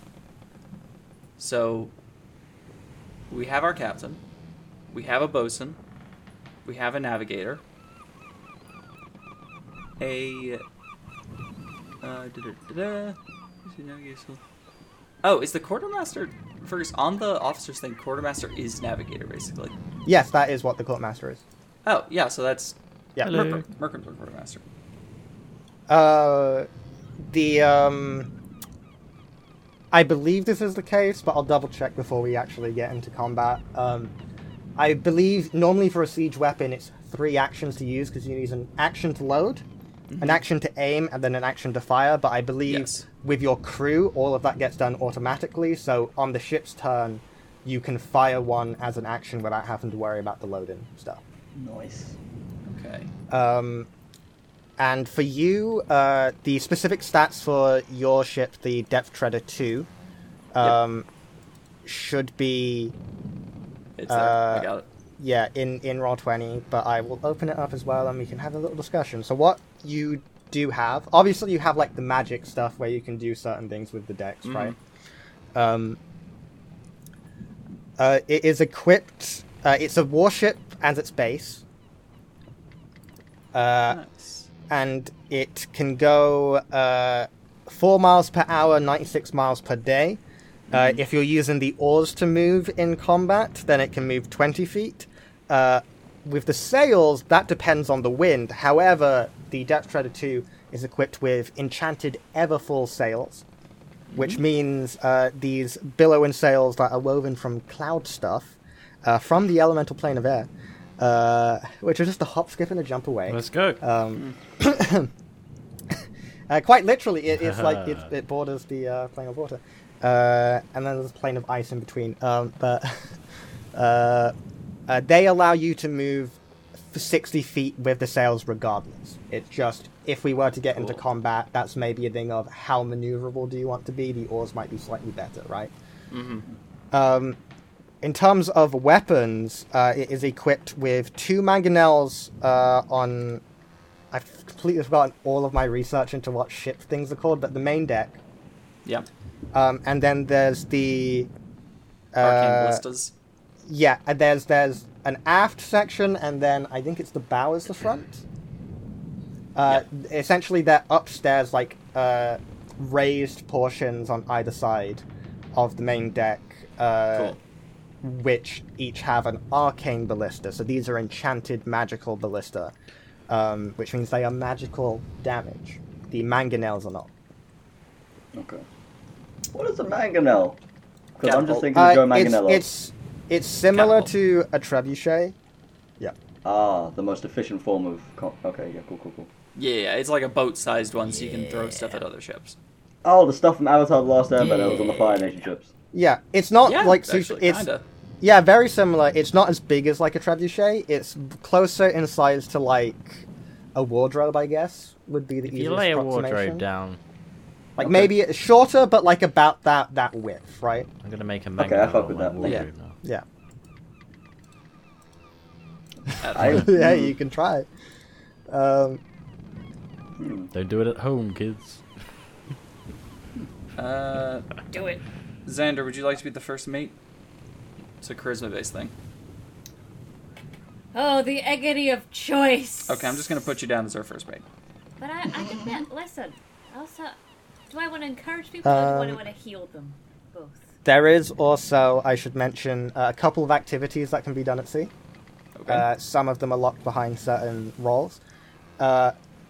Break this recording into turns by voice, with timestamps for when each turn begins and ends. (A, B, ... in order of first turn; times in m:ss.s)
0:01.4-0:01.9 A
0:03.3-0:04.2 A
0:04.9-0:05.8 A
0:06.6-0:07.6 A
0:10.0-0:10.6 A
0:12.0-0:14.4 A
0:15.2-0:19.8 A
0:20.0-0:21.4 B
0:21.8-0:24.6 A
0:23.2-0:23.6 C
0:25.9-0:26.7 B
0:27.3-0:28.3 B
0:29.9-0:34.1 B
0:34.8-0:39.6 B
0:40.1-0:40.4 A
0:40.2-0:51.2 B
0:42.7-0:43.1 A
0:51.6-0:52.2 D
0:52.7-0:53.1 A
0:53.3-0:53.9 B
0:54.8-0:59.9 B
1:00.5-1:01.1 B
1:01.8-1:03.0 B
1:04.0-1:04.9 A
1:04.1-1:14.8 B
1:14.4-1:14.8 A
1:15.6-1:16.0 B
1:18.0-1:21.6 B
1:23.5-1:24.0 B
1:23.9-1:24.5 A
1:24.7-1:30.2 B
1:30.7-1:31.0 A
1:30.7-1:43.4 B
1:44.1-1:44.4 A
1:44.2-1:55.1 B
1:53.3-1:53.8 C
1:56.5-2:03.0 B
1:57.4-1:58.1 C
2:03.7-2:04.3 B
2:04.9-2:15.7 B
2:10.7-2:11.0 A
2:16.1-2:16.5 A
2:16.9-2:17.4 B
2:18.0-2:23.4 B
2:24.1-2:28.2 B
2:29.5-2:31.3 B
2:32.1-2:32.8 B
2:32.2-2:33.1 A
2:33.6-2:38.2 B
2:39.6-2:47.4 B
2:48.0-2:52.7 B
2:53.3-2:57.1 B
2:58.3-2:58.6 D
2:59.5-3:00.6 D
3:01.2-3:02.6 D
3:01.2-3:01.7 A
3:01.7-3:05.4 B
3:03.7-3:04.1 A
3:06.4-3:09.3 D
3:09.6-3:12.6 A
3:13.0-3:15.7 D
3:14.4-3:15.3 A
3:15.9-3:17.7 B
3:16.6-3:17.8 A
3:18.2-3:26.6 B
3:25.4-3:27.0 C
3:27.8-3:28.1 A
3:27.8-3:30.9 B
3:31.0-3:33.0 C
3:31.6-3:32.7 D
3:32.4-3:33.2 B
3:36.2-3:36.7 A
3:36.3-3:37.7 B
3:36.4-3:37.1 D
3:38.5-3:39.0 B
3:40.2-3:40.5 D
3:40.5-3:41.8 C
3:43.8-3:44.5 A
3:44.7-3:45.0 E
3:45.5-3:47.0 A
3:48.0-3:48.9 A
3:50.9-3:53.2 E
3:52.9-3:54.4 A
3:55.0-3:57.2 E
3:57.7-4:00.7 E
3:58.6-3:59.2 B
4:00.8-4:04.9 B
4:05.6-4:05.9 A
4:05.7-4:08.2 B
4:08.8-4:09.2 B